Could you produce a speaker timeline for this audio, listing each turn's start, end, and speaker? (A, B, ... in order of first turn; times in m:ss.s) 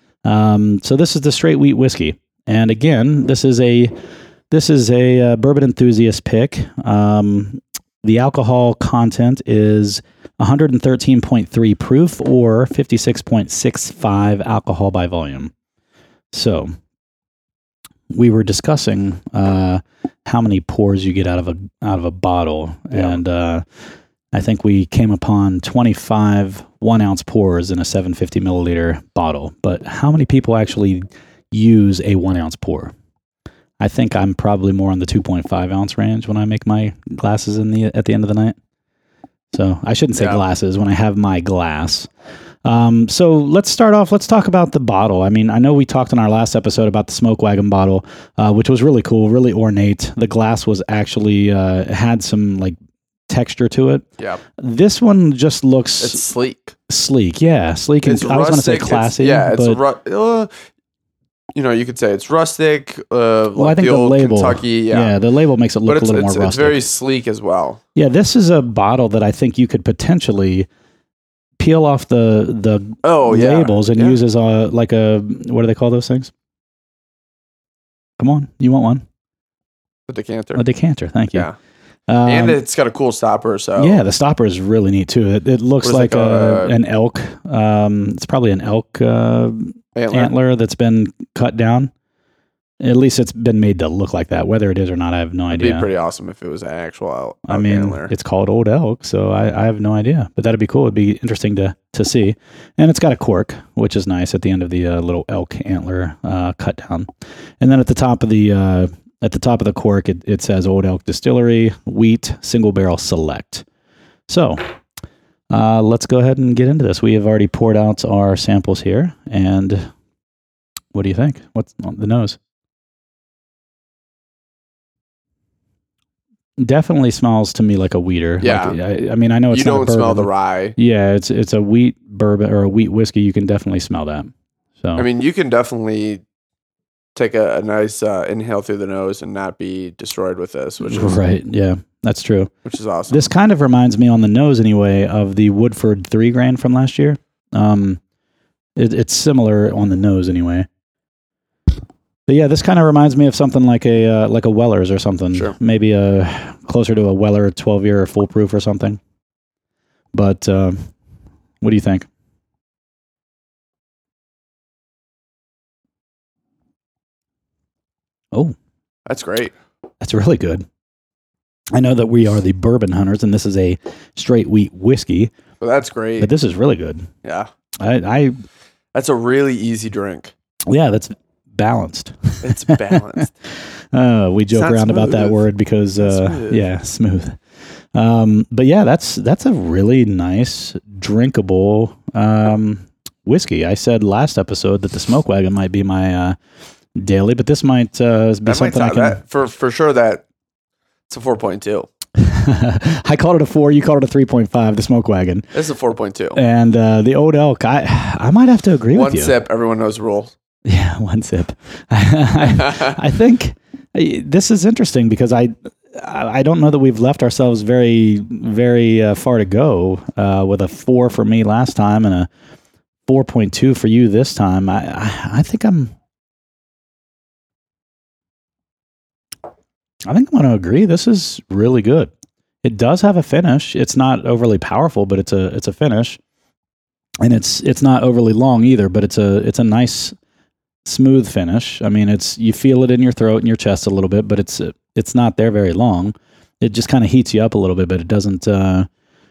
0:00.2-0:03.9 A
0:04.5-0:15.5 A
0:16.3-0:16.7 A
0:18.1-0:23.6 A
0:22.9-0:23.2 B
0:24.3-0:32.9 A
0:33.8-0:38.6 A
0:39.5-0:42.1 A
0:40.2-0:40.4 B
0:42.6-0:52.8 A
0:53.3-0:54.0 A
0:54.6-0:56.2 A
0:56.0-0:56.8 B
0:56.9-0:59.8 A
0:58.0-1:00.5 B
1:01.6-1:05.2 B
1:03.6-1:06.8 A
1:05.8-1:07.8 B
1:08.0-1:10.7 A
1:11.6-1:16.3 A
1:13.0-1:14.2 B
1:18.2-1:19.0 A
1:20.1-1:20.6 B
1:20.6-1:21.5 A
1:22.1-1:22.6 A
1:22.2-1:24.0 B
1:23.8-1:31.9 A
1:25.8-1:26.8 B
1:29.9-1:30.3 B
1:32.8-1:35.9 A
1:35.5-1:38.1 B
1:37.5-1:53.6 A
1:54.3-1:54.6 A
1:55.5-1:59.9 A
2:00.9-2:02.4 A
2:06.6-2:15.1 A
2:08.4-2:08.8 B
2:09.5-2:10.8 B
2:15.0-2:16.2 B
2:17.1-2:21.2 B
2:20.8-2:22.5 A
2:22.6-2:23.3 B
2:23.1-2:28.0 A
2:28.8-2:30.7 A
2:32.3-2:39.0 A
2:40.1-2:40.9 A
2:41.6-2:42.1 A
2:49.1-2:49.5 B
2:50.0-2:50.6 A
2:51.7-2:55.3 A
2:55.6-2:56.3 B
2:56.2-2:57.1 A
2:57.2-2:57.5 B
2:57.8-2:58.4 A
2:58.9-3:00.3 B
3:00.7-3:07.4 A
3:02.4-3:03.3 B
3:04.5-3:05.4 B
3:06.0-3:06.6 B
3:07.9-3:16.4 A
3:17.0-3:19.2 A
3:18.4-3:20.2 B
3:21.1-3:21.9 B
3:22.2-3:25.5 A
3:25.5-3:26.4 B
3:26.4-3:29.4 A
3:28.9-3:30.4 B
3:30.6-3:42.3 A
3:32.4-3:32.9 B
3:43.1-3:45.9 A
3:50.1-3:52.1 A
3:52.6-3:56.2 A
3:57.2-4:00.1 A
4:00.8-4:08.9 A